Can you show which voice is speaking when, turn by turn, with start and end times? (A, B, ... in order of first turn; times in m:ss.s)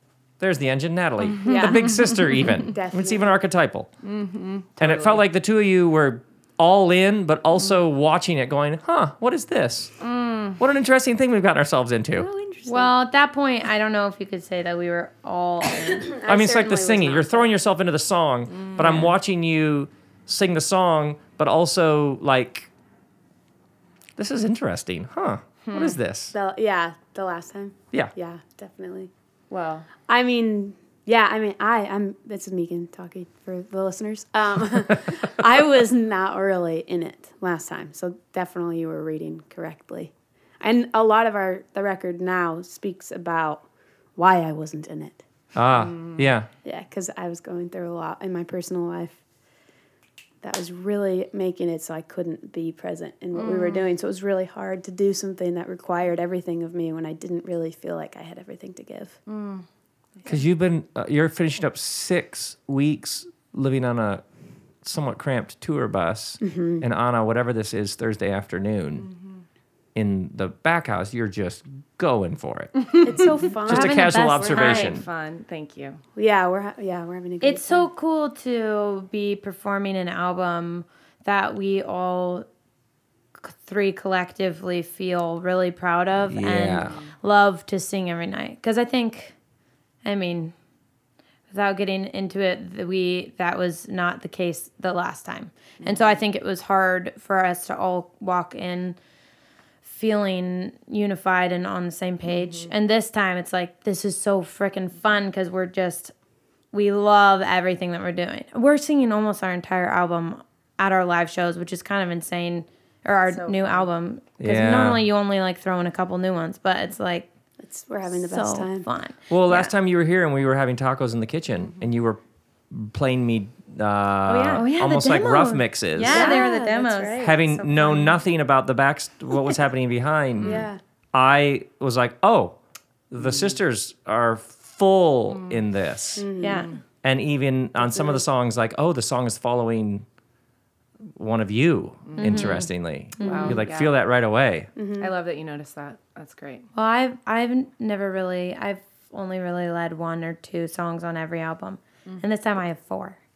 0:00.4-0:03.9 A
0:01.4-0:01.9 B
0:01.5-0:02.4 C
0:02.7-0:03.4 B
0:04.0-0:05.2 C
0:04.8-0:10.0 A
0:10.0-0:10.6 C
0:10.6-0:12.3 A
0:12.2-0:12.9 B
0:12.7-0:16.1 D
0:15.8-0:17.5 B
0:16.3-0:22.7 A
0:18.5-0:19.2 C
0:24.2-0:26.4 A
0:25.6-0:26.0 C
0:26.3-0:29.1 B
0:29.5-0:29.9 C
0:30.1-0:45.2 B
0:45.6-0:46.5 A
0:45.7-0:46.3 C
0:46.6-0:49.2 B
0:50.4-0:59.2 B
0:53.3-0:53.9 C
0:59.3-0:59.6 C
1:00.2-1:04.2 A
1:04.8-1:09.1 A
1:06.4-1:06.8 B
1:09.0-1:09.4 C
1:10.0-1:15.1 A
1:13.0-1:14.8 B
1:13.6-1:15.0 D
1:14.7-1:16.0 C
1:16.2-1:17.9 B
1:17.4-1:22.5 D
1:23.4-1:29.4 D
1:26.3-1:27.0 A
1:26.8-1:27.1 C
1:30.0-1:30.5 D
1:31.5-1:39.0 D
1:35.8-1:36.2 C
1:39.8-1:46.1 D
1:42.4-1:42.7 C
1:46.7-1:57.3 D
1:53.3-1:53.9 C
1:54.4-1:55.0 A
1:57.6-1:58.9 B
1:58.1-1:59.7 D
1:59.3-2:02.2 A
2:01.6-2:01.9 C
2:02.7-2:06.5 A
2:04.3-2:04.7 C
2:04.5-2:08.2 D
2:06.1-2:07.3 B
2:07.2-2:12.6 A
2:10.4-2:10.7 C
2:10.4-2:10.8 B
2:13.1-2:16.3 A
2:15.3-2:15.6 C
2:16.2-2:16.7 B
2:16.4-2:16.8 D
2:17.0-2:20.0 A
2:17.9-2:18.2 B
2:21.2-2:24.7 A
2:22.1-2:22.6 C
2:22.2-2:23.6 D
2:23.2-2:24.0 C
2:24.8-2:25.1 B
2:25.0-2:26.7 C
2:26.8-2:33.2 D